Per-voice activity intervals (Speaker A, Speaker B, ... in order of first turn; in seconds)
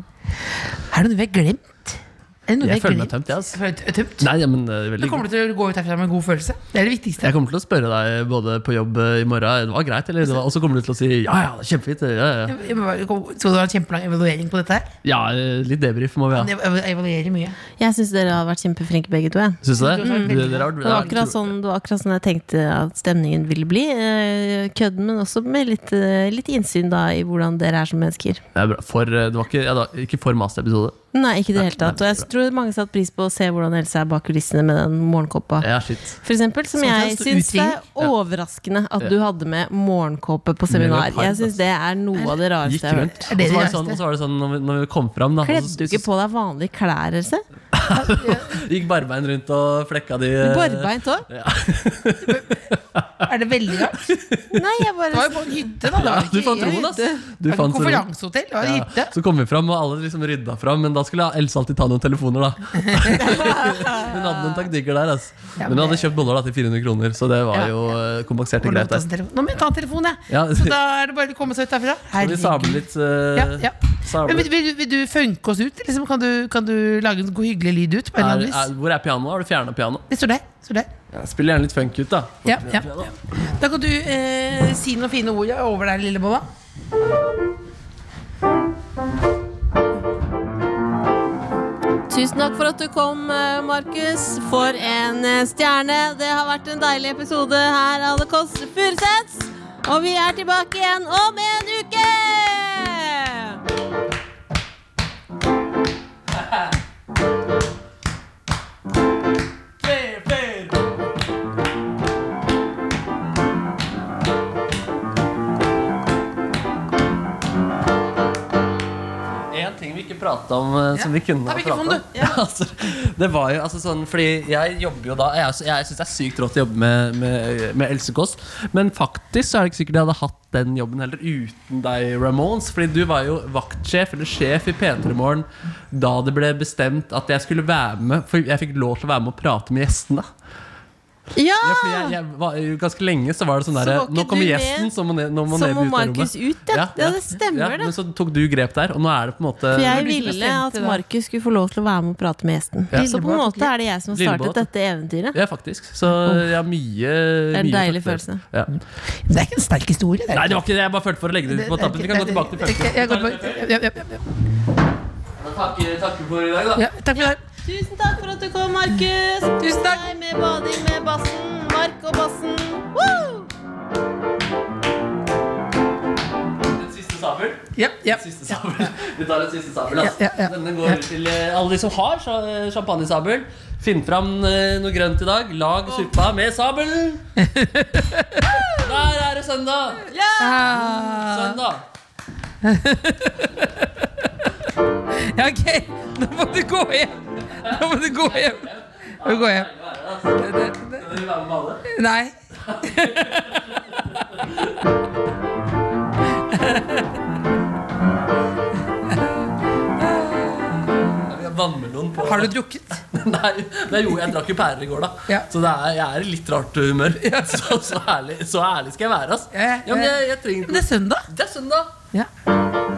Speaker A: 0.5-4.3, 5.0-7.3, 12.5-14.9, 16.3-17.6, 19.8-21.3, 36.8-37.8, 43.3-44.0, 47.9-48.6, 52.3-52.5, 53.3-54.0, 55.1-59.1, 62.8-63.6, 65.6-66.0, 68.6-78.7, 80.1-80.9, 82.5-82.9, 83.5-86.5, 120.9-122.1, 149.7-151.0, 152.9-153.7, 159.3-160.6, 161.5-164.2, 166.8-167.4, 169.6-170.0, 177.8-178.2, 180.0-181.0, 187.4-188.6, 190.4-191.6, 192.6-194.2, 195.1-199.7, 200.4-201.2, 201.8-203.8, 206.5-207.0, 210.0-210.5, 212.2-213.0, 217.2-217.7, 219.5-220.2, 220.7-221.3
Speaker B: 2.6-3.6, 4.2-5.2, 7.2-12.6, 15.0-16.5, 19.6-21.4, 28.6-31.0, 31.6-32.3, 35.6-36.2, 40.7-41.6, 42.6-46.0, 47.8-53.3, 53.9-54.6, 55.9-58.1, 58.6-69.0, 70.3-70.8, 72.2-74.5, 78.2-80.0, 81.1-83.2, 109.8-110.8, 119.5-140.3, 141.6-150.1, 154.1-154.7, 155.3-158.7, 160.3-163.7, 165.4-166.9, 176.6-187.2, 188.8-190.0, 190.7-191.8, 197.6-201.8, 202.6-204.8, 211.3-221.9
Speaker C: 17.8-28.4, 31.1-35.7, 36.2-43.1, 45.4-47.4, 50.4-51.3, 54.5-55.8, 56.6-57.2, 63.3-64.6, 92.1-103.6, 141.3-142.2, 143.7-144.9, 145.5-147.9, 149.7-155.4, 157.5-158.4, 167.2-173.5, 190.1-190.8